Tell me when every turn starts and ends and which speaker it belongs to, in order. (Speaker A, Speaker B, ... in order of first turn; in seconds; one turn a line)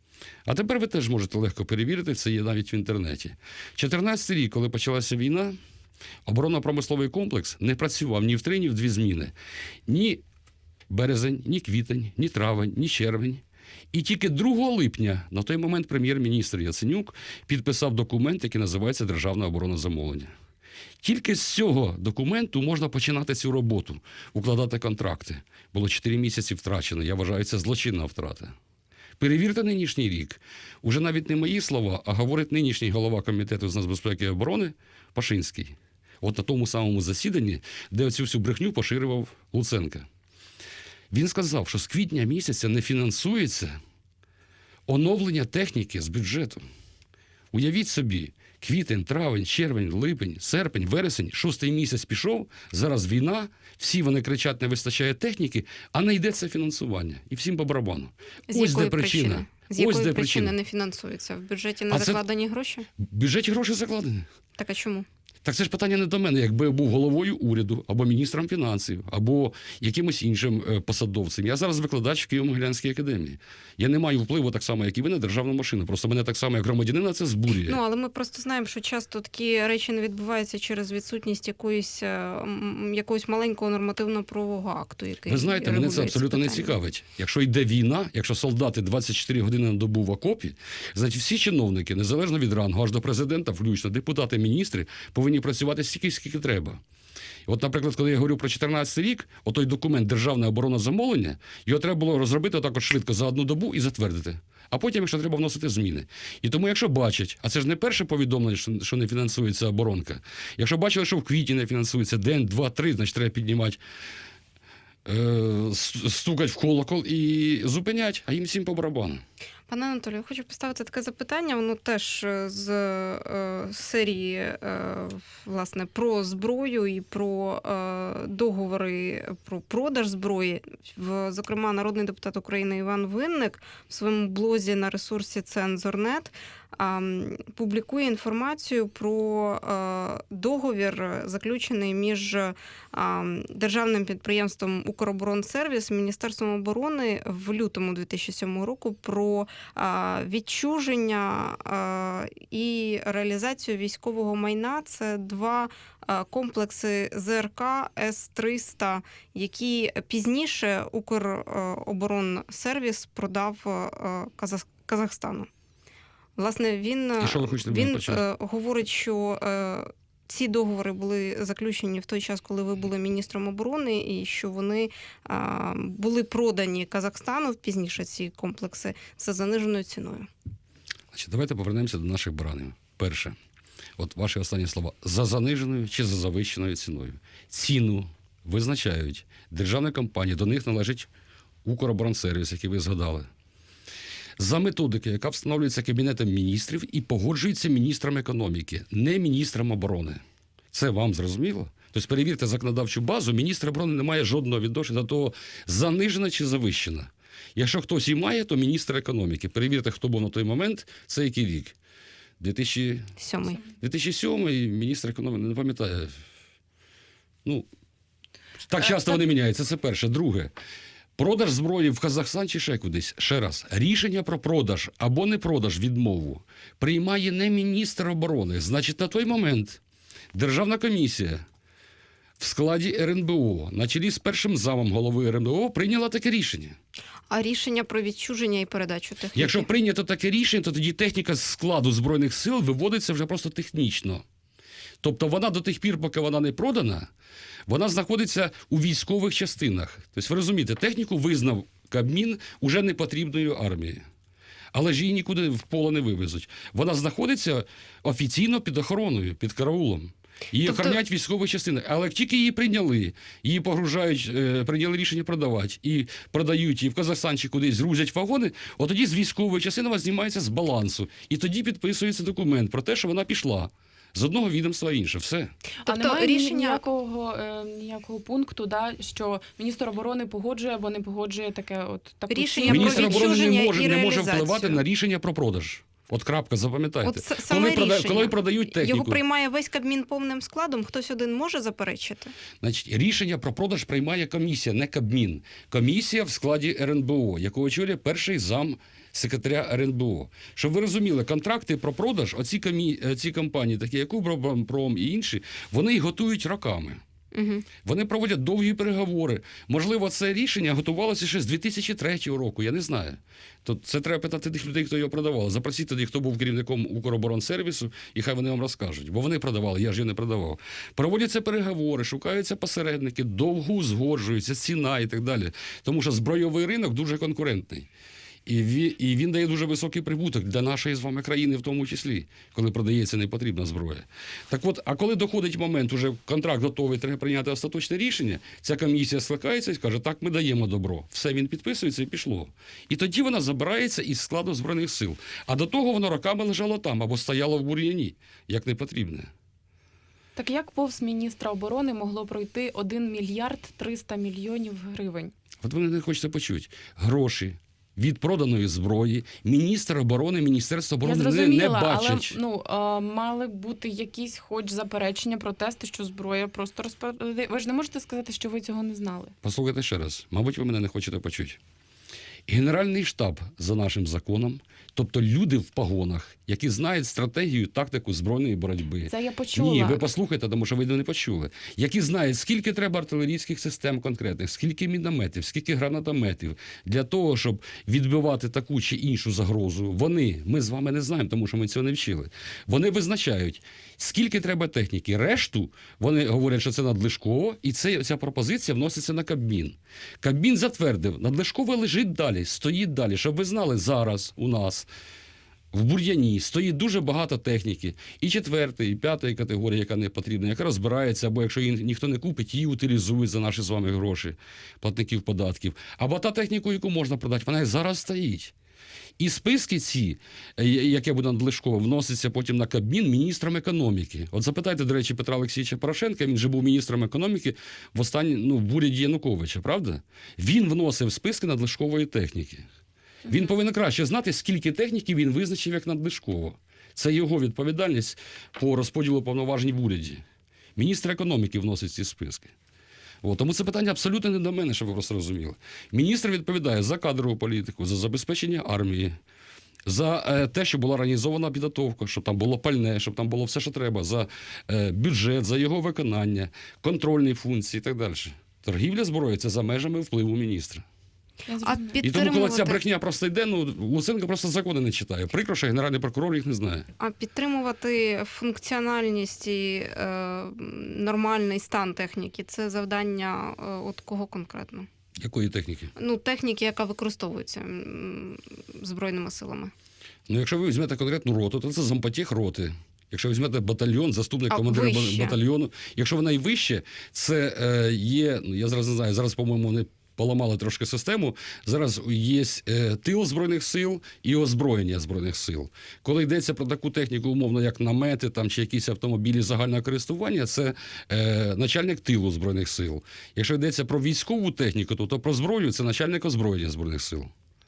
Speaker A: 0.5-5.6
Speaker A: 6.2-9.3
Speaker A: 9.9-10.2
Speaker A: 10.9-20.3
Speaker A: 21.0-28.6
Speaker A: 29.2-40.1
Speaker A: 41.1-43.8
Speaker A: 44.9-46.6
Speaker A: 47.5-60.5
Speaker B: 58.5-62.9
Speaker A: 61.9-62.2
Speaker A: 63.0-64.3
Speaker B: 64.6-65.1
Speaker A: 65.4-77.8
Speaker B: 77.6-86.8
Speaker A: 85.3-96.8
Speaker A: 97.5-113.8
Speaker A: 115.0-119.2
Speaker B: 119.7-165.5
Speaker B: 166.4-180.3
Speaker A: 167.2-168.2
Speaker A: 181.1-183.4
Speaker A: 184.0-191.1
Speaker A: 191.7-193.3
Speaker A: 194.4-211.8
Speaker A: 212.4-213.1
Speaker B: 213.2-213.6
Speaker A: 213.7-216.2
Speaker A: 218.7-220.5
Speaker A: 221.2-229.8
Speaker A: 230.3-231.4
Speaker A: 232.4-236.8
Speaker B: 237.3-239.7
Speaker A: 239.3-244.2
Speaker A: 245.0-247.1
Speaker A: 247.7-254.0
Speaker A: 254.7-275.5
Speaker B: 260.7-261.0
Speaker C: 275.9-283.5
Speaker B: 275.9-276.8
Speaker B: 282.3-284.8
Speaker A: 282.7-289.2
Speaker B: 287.0-292.3
Speaker A: 292.6-307.0
Speaker B: 307.3-307.7
Speaker A: 307.8-327.9
Speaker A: 328.5-349.3
Speaker C: 350.4-355.3
Speaker A: 355.6-362.4
Speaker C: 361.0-369.4
Speaker A: 369.4-371.6
Speaker A: 372.5-404.9
Speaker C: 379.1-380.1
Speaker A: 405.7-418.5
Speaker A: 419.2-432.7
Speaker A: 433.3-440.2
Speaker A: 440.8-442.5
Speaker A: 443.2-449.1
Speaker A: 449.9-460.9
Speaker C: 461.5-462.0
Speaker B: 461.6-462.8
Speaker A: 462.0-466.9
Speaker B: 467.0-474.9
Speaker A: 475.2-475.9
Speaker B: 476.0-479.7
Speaker A: 480.3-507.3
Speaker B: 484.5-485.4